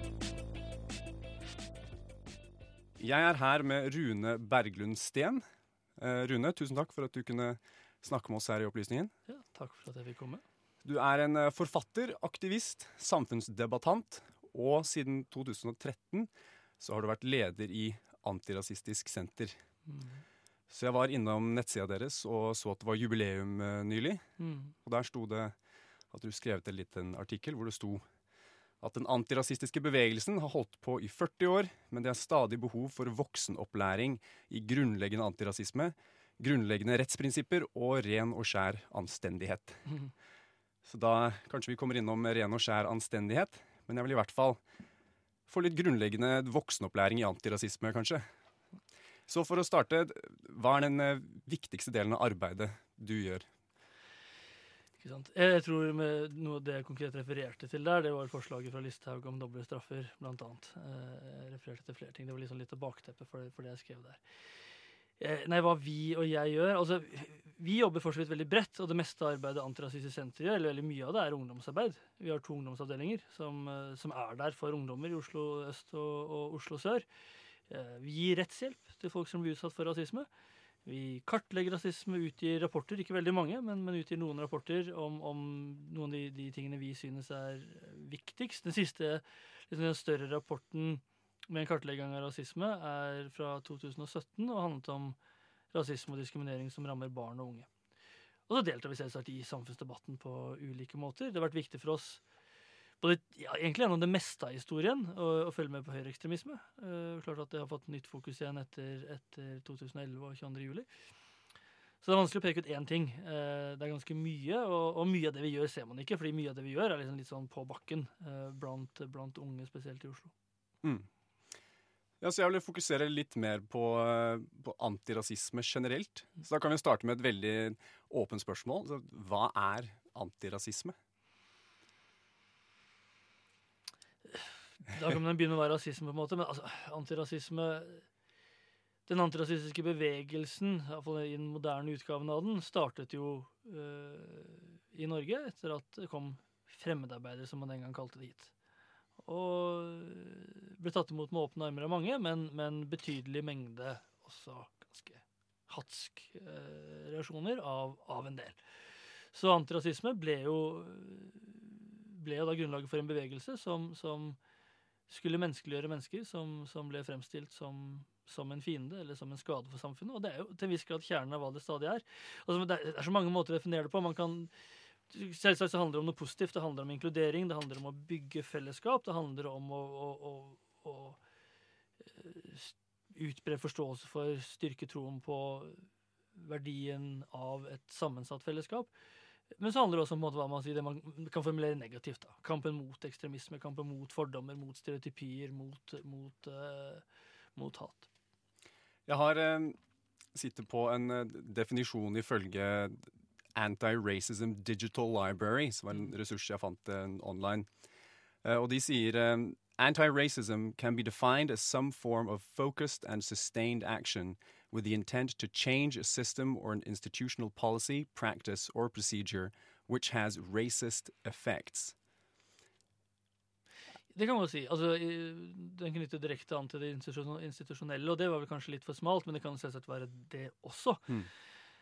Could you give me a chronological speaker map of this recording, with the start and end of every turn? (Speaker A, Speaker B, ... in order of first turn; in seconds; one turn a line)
Speaker A: 3.0-5.4
Speaker A: 6.0-9.1
Speaker B: 9.3-10.4
Speaker A: 10.8-19.6
Speaker B: 19.9-20.2
Speaker A: 20.7-24.2
Speaker B: 24.4-24.7
Speaker A: 24.8-25.5
Speaker A: 26.1-28.0
Speaker A: 28.8-40.0
Speaker A: 40.8-44.6
Speaker A: 45.5-48.2
Speaker A: 49.3-53.5
Speaker B: 55.0-64.2
Speaker B: 65.2-77.0
Speaker B: 77.7-80.3
Speaker B: 80.8-95.2
Speaker B: 95.7-97.7
Speaker B: 98.5-102.2
Speaker B: 103.0-110.9
Speaker B: 112.0-120.3
Speaker A: 120.8-121.1
Speaker A: 122.2-130.9
Speaker B: 134.2-138.0
Speaker B: 139.1-148.5
Speaker B: 149.2-158.6
Speaker B: 159.3-164.4
Speaker B: 165.1-174.5
Speaker B: 175.1-181.2
Speaker B: 182.1-185.8
Speaker B: 186.3-188.9
Speaker B: 189.6-197.0
Speaker B: 197.6-198.1
Speaker A: 199.1-199.8
Speaker A: 200.3-207.7
Speaker A: 208.4-221.9
Speaker B: 224.1-231.2